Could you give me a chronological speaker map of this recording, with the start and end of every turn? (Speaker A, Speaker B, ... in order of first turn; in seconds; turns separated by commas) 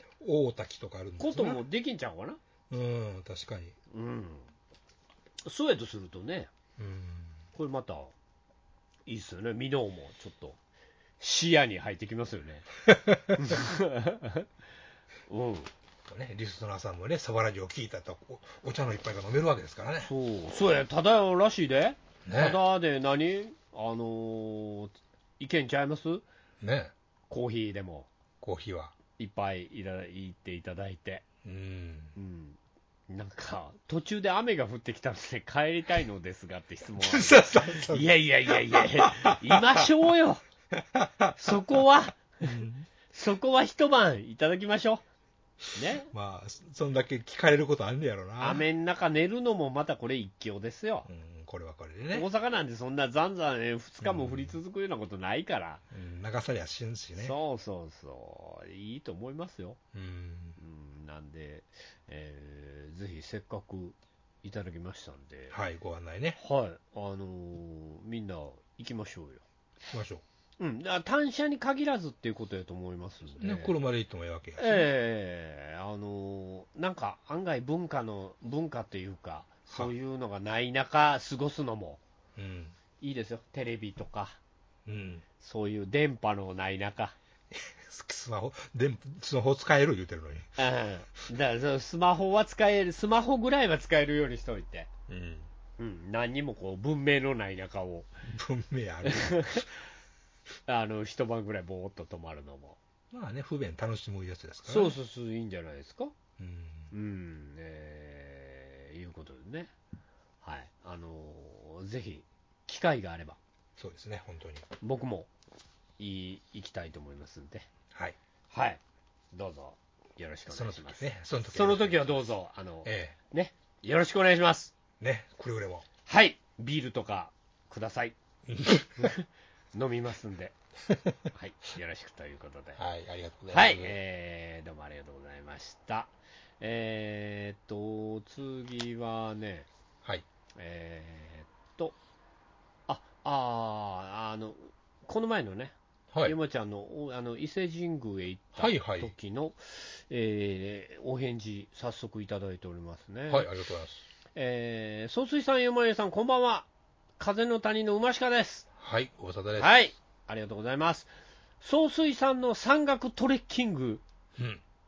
Speaker A: 0.2-1.6, Speaker B: 1.2-2.4, Speaker A: 2.7-3.7, Speaker B: 3.9-4.5, Speaker B: 5.4-6.5, Speaker A: 6.8-7.4, Speaker B: 7.5-8.1, Speaker B: 9.1-10.6, Speaker B: 11.2-12.7, Speaker A: 13.1-13.3, Speaker B: 13.3-14.4, Speaker B: 15.3-15.7, Speaker A: 16.1-20.1, Speaker B: 20.0-26.2, Speaker A: 22.2-22.6, Speaker A: 26.6-26.9, Speaker B: 27.3-28.1, Speaker A: 28.4-28.9, Speaker B: 29.2-31.2, Speaker A: 31.4-32.1, Speaker B: 32.1-32.6, Speaker B: 33.1-40.4, Speaker A: 36.9-39.9, Speaker A: 40.8-41.8, Speaker B: 41.4-42.5, Speaker A: 42.4-42.9, Speaker B: 43.1-45.0, Speaker B: 45.7-46.1, Speaker A: 46.1-48.6, Speaker B: 48.4-51.1, Speaker A: 51.0-52.3, Speaker B: 52.1-55.8, Speaker A: 54.0-54.6, Speaker A: 55.9-57.3, Speaker B: 57.2-59.8, Speaker A: 59.9-60.6, Speaker B: 60.6-65.5, Speaker A: 65.5-66.4, Speaker B: 66.4-69.4, Speaker A: 69.9-70.2, Speaker B: 70.6-73.8, Speaker A: 73.4-74.9, Speaker B: 74.6-82.0, Speaker A: 82.3-82.7, Speaker B: 83.0-84.4, Speaker A: 84.8-85.2, Speaker B: 85.4-87.1, Speaker A: 87.5-90.6, Speaker B: 90.6-94.9, Speaker A: 95.1-95.5, Speaker B: 95.8-98.1, Speaker A: 98.2-99.7, Speaker B: 99.0-99.7, Speaker B: 100.7-102.8, Speaker A: 103.1-104.9, Speaker B: 104.6-106.1, Speaker A: 106.4-106.9, Speaker B: 106.9-109.7, Speaker B: 110.4-113.4, Speaker A: 113.8-114.7, Speaker B: 114.8-115.3, Speaker B: 116.0-117.7, Speaker B: 118.5-118.8, Speaker B: 119.3-124.7, Speaker A: 120.5-122.3, Speaker A: 122.8-123.1, Speaker A: 125.0-125.8, Speaker B: 126.1-128.2, Speaker A: 128.5-129.1, Speaker B: 129.0-130.6, Speaker A: 130.9-131.2, Speaker B: 131.3-132.8, Speaker A: 132.8-133.9, Speaker B: 133.5-139.7, Speaker B: 140.6-141.9, Speaker B: 142.9-153.5, Speaker A: 148.6-149.1, Speaker A: 153.3-154.0, Speaker B: 154.3-156.7, Speaker B: 157.2-158.7, Speaker A: 158.8-159.7, Speaker B: 159.6-161.1, Speaker B: 161.6-164.0, Speaker A: 164.4-164.6